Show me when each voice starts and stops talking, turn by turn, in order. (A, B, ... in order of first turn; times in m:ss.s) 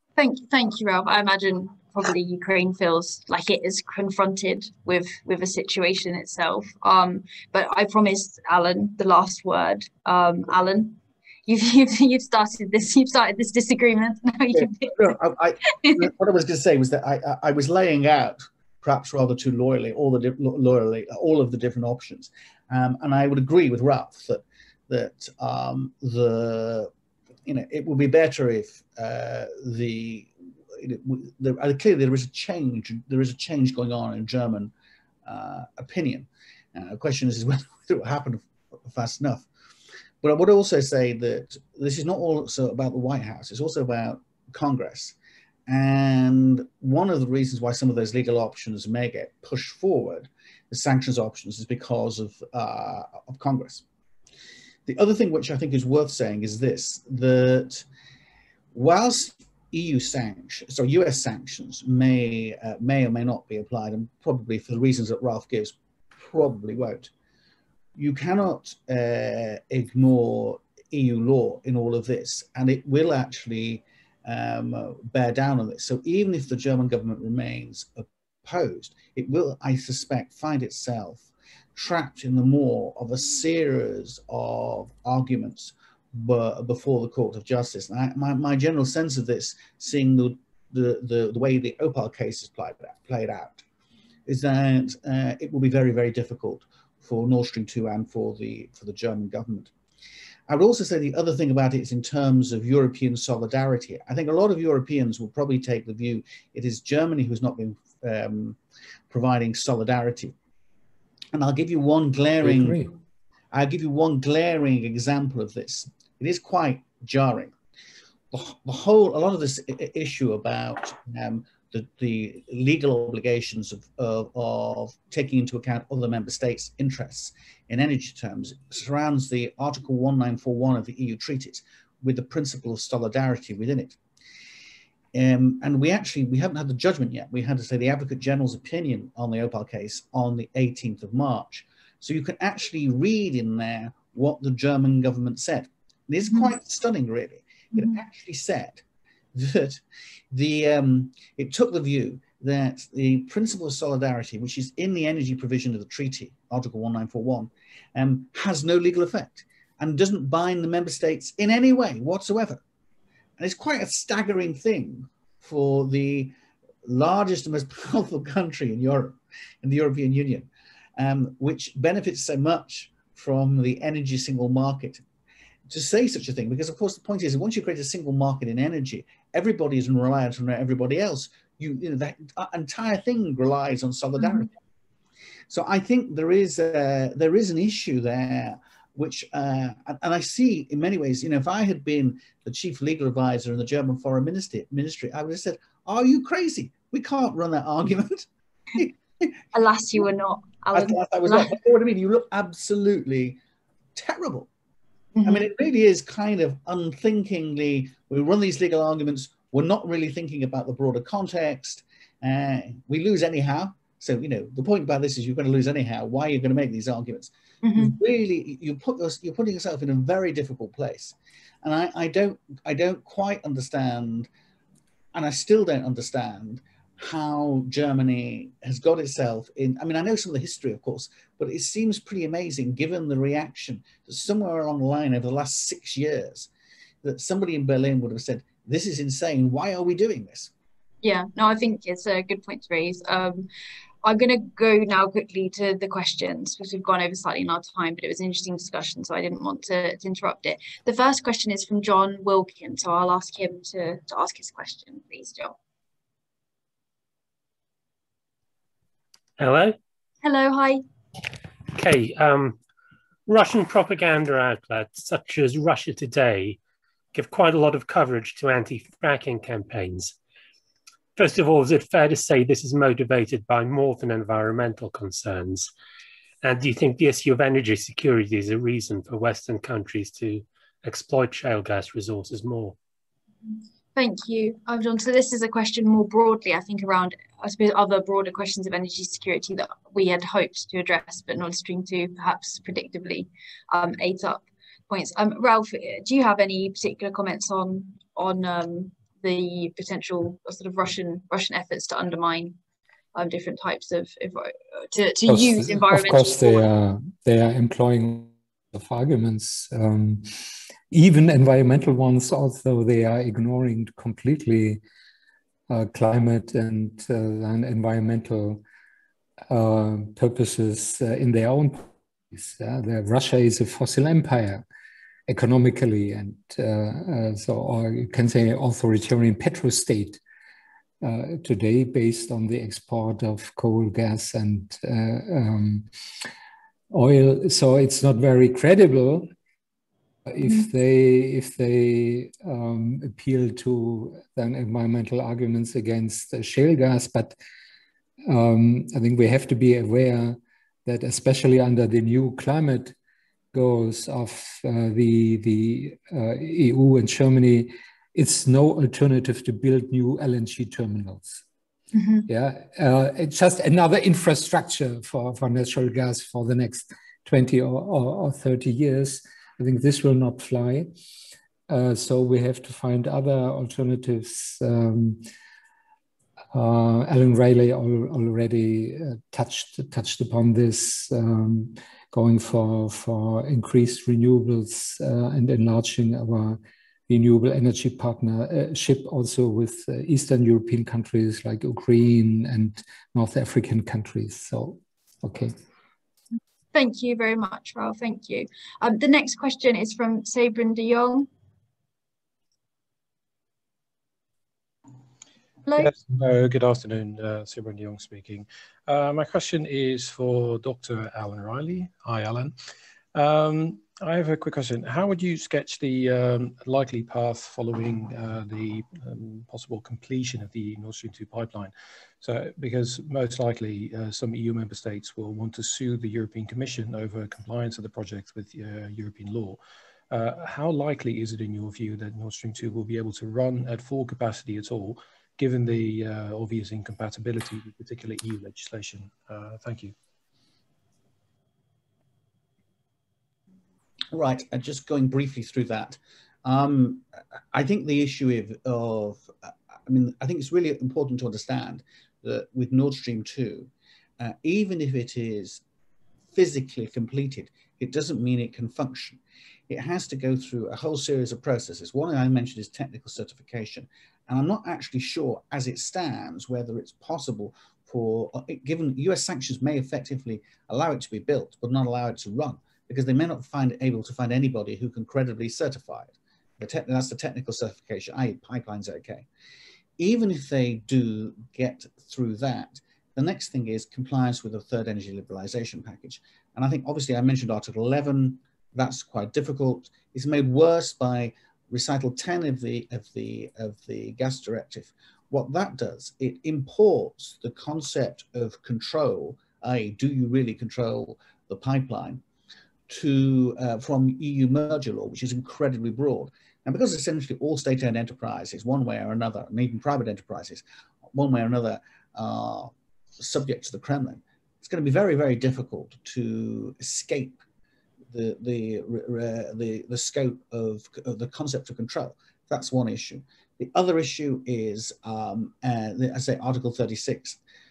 0:00.2-0:15.2 A
0:14.5-0:26.9 B
0:15.7-0:16.1 A
0:27.4-0:34.7 B
0:35.2-0:39.5 B
0:40.2-0:45.2 B
0:45.7-0:53.8 B
0:54.9-0:57.9 B
0:58.7-1:07.1 B
1:08.0-1:33.6 B
1:34.3-1:39.7 B
1:40.5-1:48.6 B
1:49.1-1:50.4 B
1:51.3-1:52.8 B
1:52.4-1:52.9 C
1:53.5-1:57.5 B
1:58.3-2:14.0 B
2:15.1-2:28.8 B
2:29.3-2:42.6 B
2:43.4-2:46.3 B
2:46.8-2:55.0 B
2:55.7-3:04.6 B
3:05.5-3:19.3 B
3:19.5-3:21.5 A
3:20.7-3:23.4 B
3:24.0-3:24.5 B
3:25.2-3:25.5 A
3:25.2-3:44.3 B
3:37.6-3:38.0 A
3:45.1-3:56.5 B
3:57.0-4:00.5 B
4:01.0-4:03.5 A
4:04.0-4:15.6 A
4:19.4-4:19.8 D
4:20.2-4:20.8 A
4:21.7-4:22.6 D
4:23.3-4:26.6 D
4:27.1-4:30.2 D
4:31.2-4:35.7 D
4:36.4-4:42.8 D
4:44.0-5:02.6 A
5:03.2-5:06.6 A
5:05.3-5:14.8 C
5:15.7-5:18.6 C
5:19.5-5:24.6 C
5:25.3-5:30.2 C
5:31.0-5:35.9 C
5:36.9-5:39.3 C
5:40.3-5:47.4 C
5:48.3-5:52.9 C
5:53.5-6:01.4 C
6:01.9-6:02.3 A
6:02.3-6:10.9 C
6:11.7-6:15.2 C
6:16.5-6:26.6 C
6:27.1-6:35.5 C
6:36.7-6:41.3 A
6:45.7-6:45.9 A
6:45.8-6:52.6 E
6:53.1-7:20.0 E
7:24.1-7:35.6 B
7:36.3-7:59.3 B
8:00.0-8:22.2 B
8:22.9-8:37.4 B
8:38.1-8:47.4 B